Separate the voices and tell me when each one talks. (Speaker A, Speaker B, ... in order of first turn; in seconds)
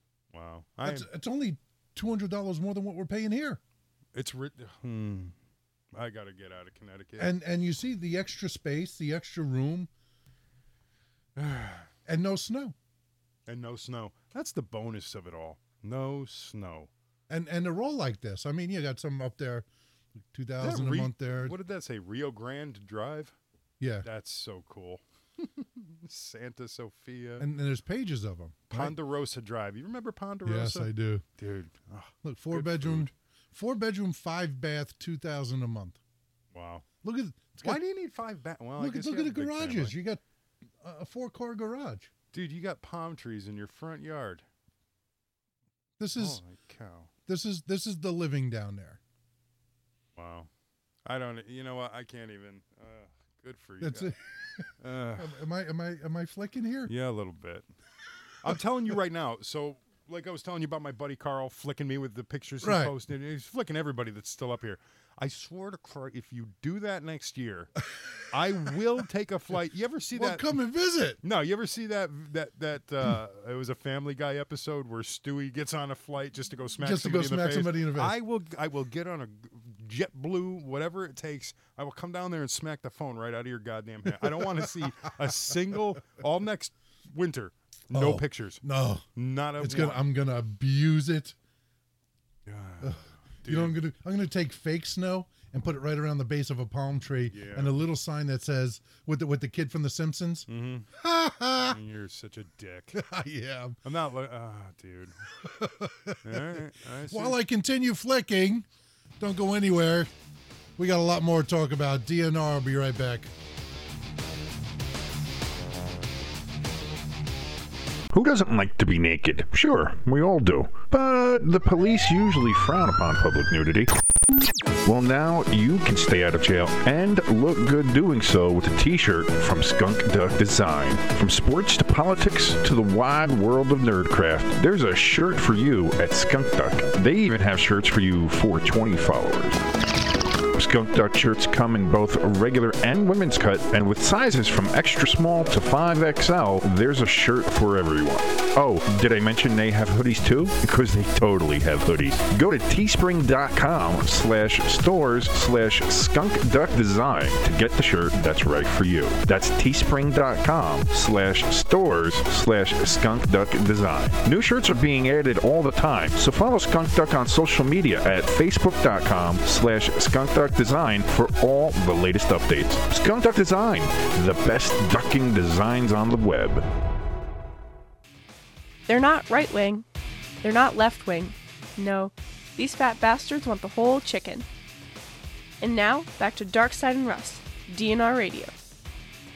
Speaker A: 0.3-1.1, 4.1-5.3, 5.9-7.3, 11.4-11.9, 13.5-16.9, 20.6-23.3, 24.0-27.5, 28.7-33.1, 36.5-36.9, 37.6-39.9, 42.3-44.4, 46.2-47.1, 50.1-50.5, 51.0-54.1, 54.8-55.4, 56.9-57.7, 58.4-67.7, 68.3-70.5, 71.2-88.6, 89.2-90.0, 92.5-93.8, 97.3-97.7, 100.5-100.9, 101.7-103.0, 103.8-105.2, 106.2-107.4
Speaker B: 0.8-3.6, 7.2-9.9, 12.1-12.8, 17.3-19.7, 20.3-21.6, 23.8-24.1, 27.4-29.0, 30.4-31.2, 32.2-36.0, 37.0-37.8, 38.8-40.2, 40.8-42.1, 46.0-46.4, 47.3-49.0, 53.8-56.9, 62.6-62.9, 70.1-71.2, 76.8-78.2, 84.2-84.9, 87.9-89.0, 89.6-91.3, 92.8-101.8, 102.9-103.8, 105.4-108.7, 109.2-110.1, 110.8-113.3
Speaker C: 118.1-123.9, 124.8-139.6, 140.5-176.6
Speaker D: 178.9-179.8, 180.4-184.4, 185.6-188.5